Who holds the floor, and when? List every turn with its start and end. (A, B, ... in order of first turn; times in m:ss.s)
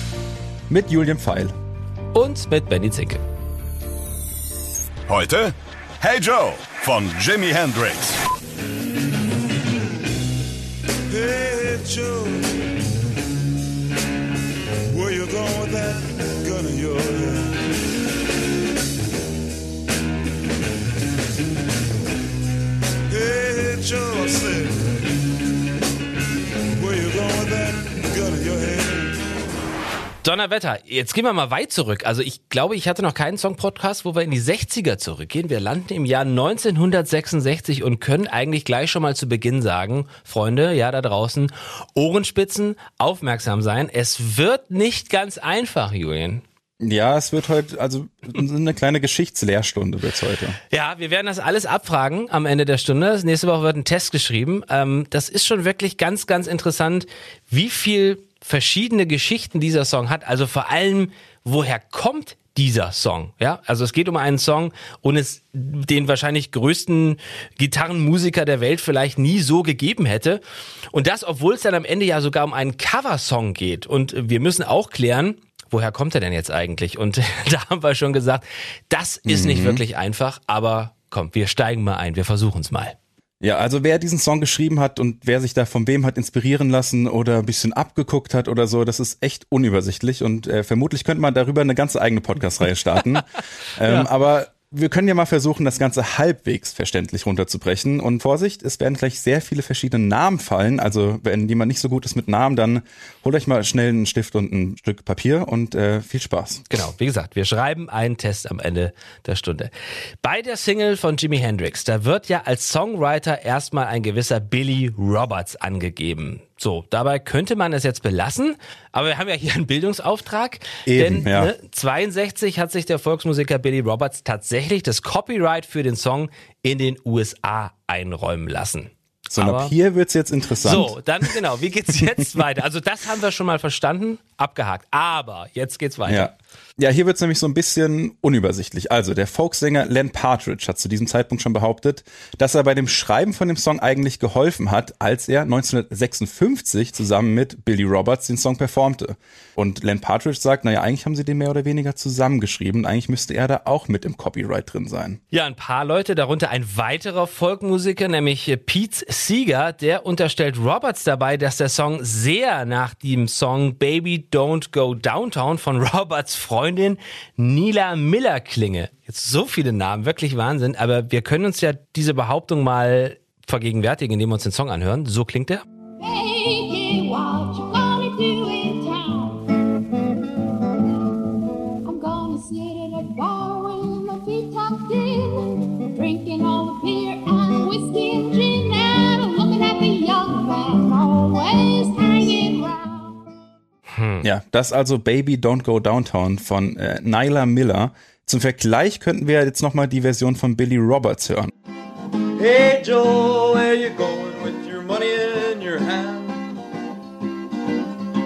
0:00.7-0:01.5 A
0:02.1-0:03.2 B
0:05.1-0:08.2 C
0:11.1-0:12.5 D
0:14.9-0:17.6 D
0:23.1-0:24.9 D
0:26.8-0:29.2 D
0:30.2-0:46.4 B
0:46.8-0:50.6 A
0:50.7-1:23.0 B
1:19.2-1:19.8 A
1:23.4-1:46.6 A
1:46.7-2:09.7 B
2:00.9-2:01.5 A
2:09.3-2:11.4 A
2:10.6-2:16.3 B
2:16.1-2:35.2 A
2:35.3-2:55.6 B
2:56.0-2:59.5 E
3:01.8-3:13.2 E
3:13.9-3:14.2 B
3:14.2-3:21.5 A
3:22.4-3:26.6 F